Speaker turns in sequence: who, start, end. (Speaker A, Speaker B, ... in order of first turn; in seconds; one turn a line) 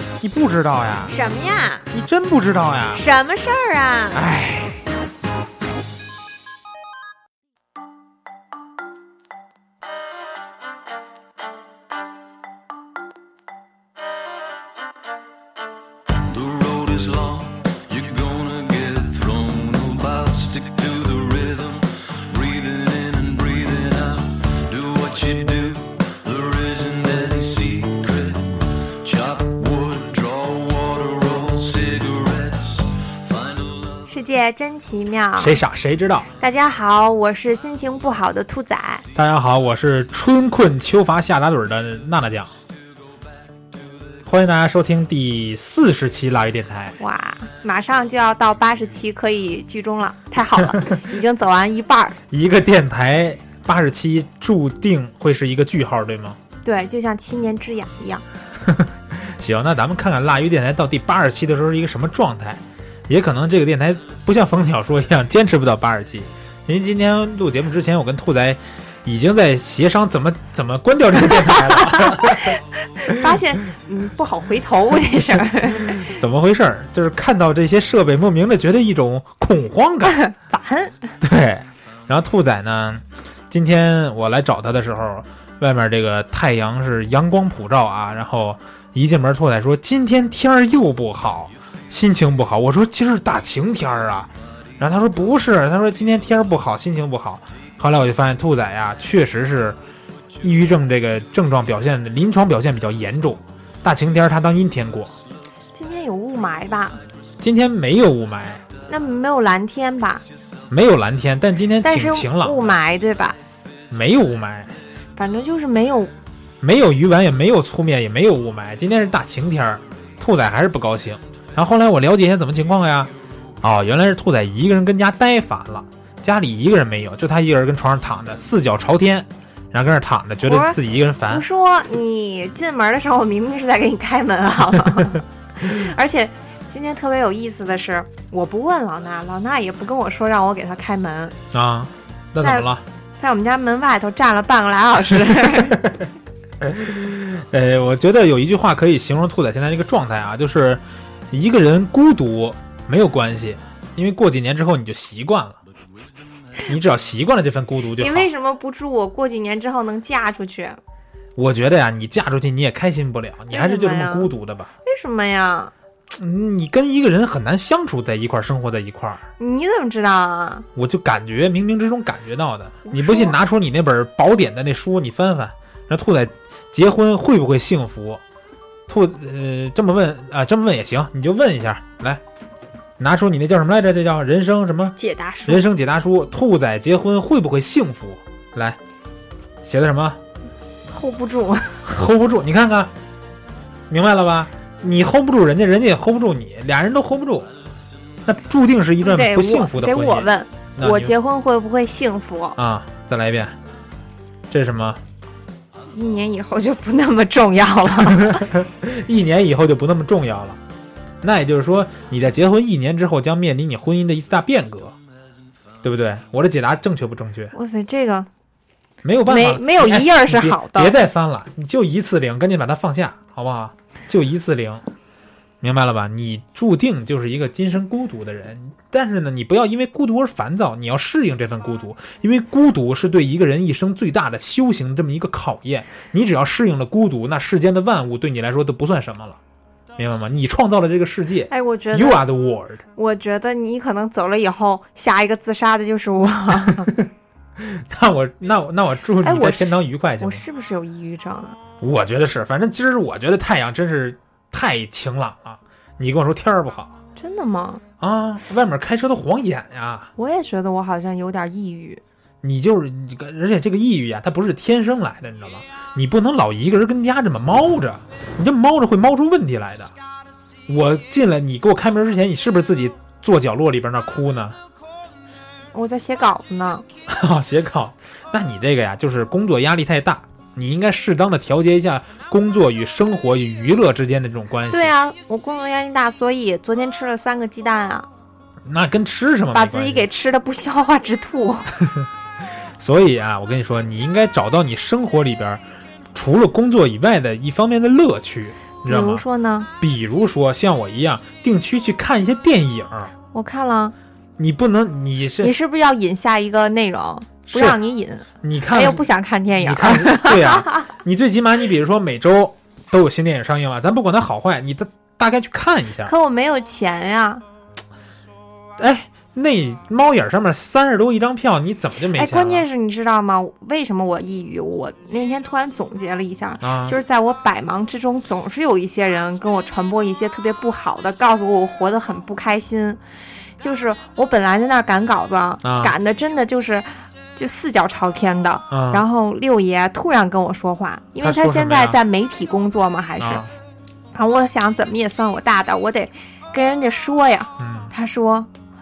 Speaker A: 0.2-1.1
Speaker B: 1.1-1.9
Speaker A: 1.9-3.0
Speaker B: 2.9-4.2
Speaker A: 4.1-4.8
Speaker C: 16.2-34.0
Speaker B: 34.1-35.6
Speaker A: 35.4-36.3
Speaker B: 36.4-39.0
Speaker A: 39.1-42.5
Speaker A: 44.2-47.0
Speaker B: 47.0-52.2
Speaker A: 50.6-50.8
Speaker A: 52.3-56.4
Speaker B: 56.6-58.2
Speaker A: 58.6-73.4
Speaker B: 71.3-76.1
Speaker A: 75.8-80.2
Speaker B: 80.1-81.1
Speaker A: 81.2-99.8
Speaker A: 100.4-105.1
Speaker B: 105.7-107.0
Speaker A: 107.4-108.6
Speaker B: 108.9-110.2
Speaker A: 110.7-112.8
Speaker B: 111.8-113.4
Speaker A: 113.9-114.7
Speaker B: 115.2-116.1
Speaker A: 116.6-131.4
Speaker B: 130.4-141.3
Speaker A: 141.5-142.8
Speaker B: 142.4-142.7
Speaker B: 143.2-145.8
Speaker A: 145.3-146.1
Speaker A: 146.6-155.6
Speaker A: 156.7-158.3
Speaker B: 158.0-160.8
Speaker A: 161.3-164.7
Speaker B: 163.5-164.3
Speaker B: 164.8-165.7
Speaker A: 166.1-169.2
Speaker B: 169.4-170.7
Speaker A: 170.8-178.2
Speaker B: 172.8-173.3
Speaker A: 178.9-182.2
Speaker A: 183.0-188.8
Speaker B: 185.0-185.7
Speaker A: 189.6-190.2
Speaker B: 190.9-191.8
Speaker A: 191.8-192.9
Speaker A: 193.9-197.5
Speaker A: 198.2-201.1
Speaker B: 199.0-202.6
Speaker A: 202.6-203.5
Speaker A: 204.5-205.0
Speaker B: 205.9-208.5
Speaker A: 208.0-210.6
Speaker A: 211.2-214.9
Speaker A: 215.8-217.5
Speaker B: 217.5-218.3
Speaker A: 219.0-224.8
Speaker B: 219.2-221.0
Speaker A: 225.6-239.4
Speaker A: 240.0-242.8
Speaker B: 241.5-242.2
Speaker B: 242.9-246.9
Speaker A: 246.7-250.4
Speaker B: 249.2-251.6
Speaker A: 251.8-256.9
Speaker B: 257.2-257.8
Speaker A: 258.0-260.1
Speaker B: 260.2-262.0
Speaker A: 262.4-269.9
Speaker A: 270.7-274.6
Speaker B: 275.7-276.8
Speaker A: 277.1-284.9
Speaker B: 284.7-288.1
Speaker A: 288.6-290.1
Speaker B: 289.5-291.7
Speaker A: 291.8-292.1
Speaker A: 292.8-295.6
Speaker A: 296.1-299.2
Speaker B: 298.9-299.7
Speaker A: 299.8-303.1
Speaker B: 303.3-303.9
Speaker A: 304.4-305.5
Speaker B: 305.4-310.9
Speaker A: 307.5-307.8
Speaker A: 308.4-309.0
Speaker A: 309.6-316.1
Speaker B: 316.1-317.4
Speaker A: 318.8-322.7
Speaker B: 322.1-333.0
Speaker A: 326.6-327.0
Speaker B: 333.6-343.4
Speaker A: 335.6-335.9
Speaker A: 338.7-339.0
Speaker A: 341.2-342.0
Speaker A: 343.2-343.5
Speaker B: 344.1-348.5
Speaker A: 347.6-347.9